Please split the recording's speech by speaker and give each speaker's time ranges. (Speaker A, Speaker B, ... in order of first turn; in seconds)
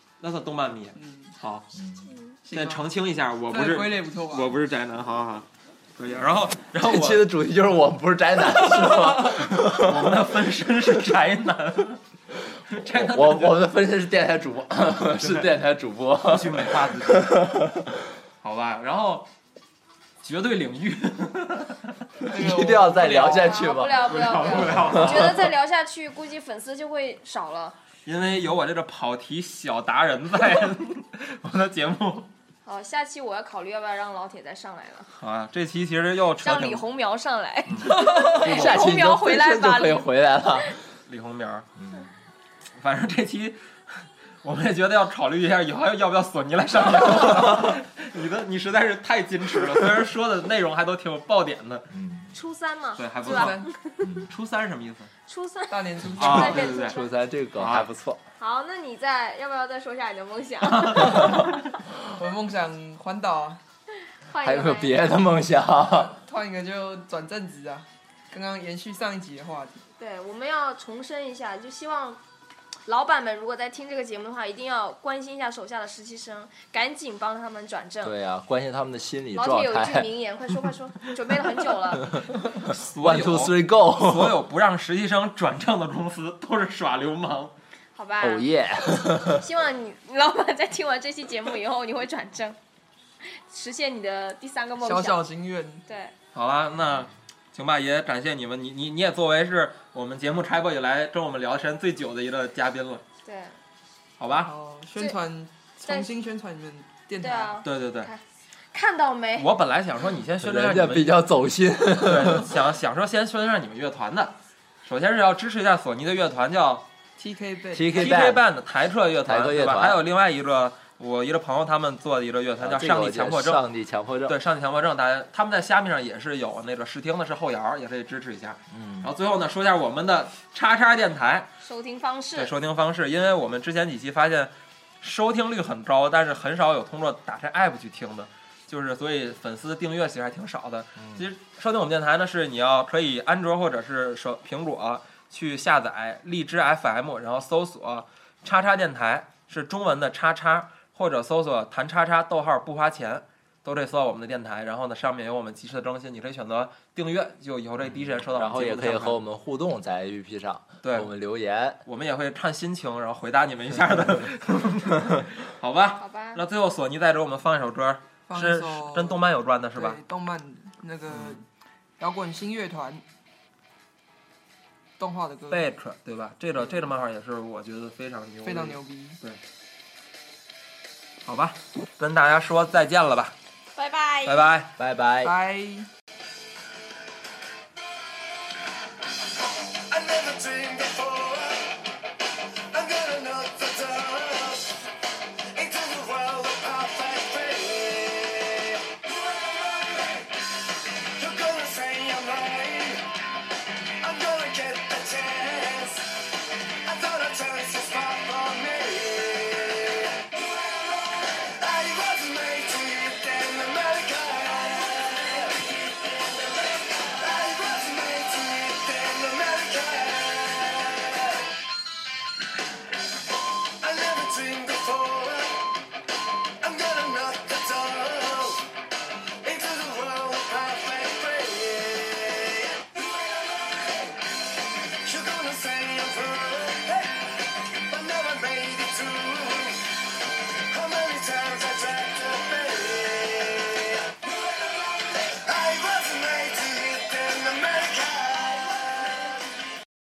Speaker A: 0.2-1.7, 2.5-7.3, 9.2-12.0, 12.7-13.7, 15.2-15.6, 16.3-17.4, 18.4-19.3, 20.2-22.0, 23.9-25.5, 28.1-32.3, 35.2-36.8, 37.7-37.9, 41.1-41.7, 42.8-51.9, 53.0-53.7, 54.3-55.1, 56.1-57.0, 57.6-57.9, 60.9-61.2, 82.6-87.5, 96.3-103.0, 104.2-104.5, 107.6-108.1, 109.4-111.2, 111.9-116.9, 117.9-123.6, 124.3-131.5, 132.4-159.2, 160.8-161.1, 161.9-170.0, 171.1-171.4, 175.5-179.4, 181.2-183.3, 184.3-184.7
Speaker B: 1.0-1.3, 2.5-2.9, 3.5-4.5, 22.2-23.6, 37.8-38.7, 53.2-53.7, 55.7-56.8, 62.0-63.6, 66.0-69.9, 94.8-95.8, 104.3-107.6, 117.2-118.3, 168.3-171.4, 172.0-173.0, 175.0-175.7, 178.4-179.2, 185.2-185.9
Speaker C: 1.7-2.1, 6.8-10.3, 12.9-17.9, 22.3-25.5, 38.3-40.8, 41.8-42.1, 51.9-52.3, 54.0-54.3, 56.3-58.2, 64.4-66.2, 78.0-80.1, 81.9-84.4, 88.2-89.5, 110.4-112.5, 117.7-118.4, 119.2-120.0, 122.6-124.4, 128.7-129.1, 141.0-141.2, 157.9-161.8, 184.8-185.3
Speaker D: 2.1-2.4, 23.0-27.8, 32.6-35.1, 36.4-40.7, 52.3-54.1, 55.3-57.1, 58.4-61.5, 64.3-65.1, 70.0-72.2, 72.9-78.2, 79.3-82.2, 88.0-92.6, 93.2-95.2, 95.9-96.1, 103.2-103.6, 105.8-106.1, 107.2-108.2, 108.7-109.5, 131.6-132.5, 166.0-166.4, 183.7-184.5
Speaker E: 189.9-191.8, 192.7-194.8, 195.5-200.4, 201.2-203.1, 204.0-206.1, 206.8-221.5, 223.8-225.8, 226.6-228.7, 229.4-234.2, 235.0-240.0, 240.6-249.3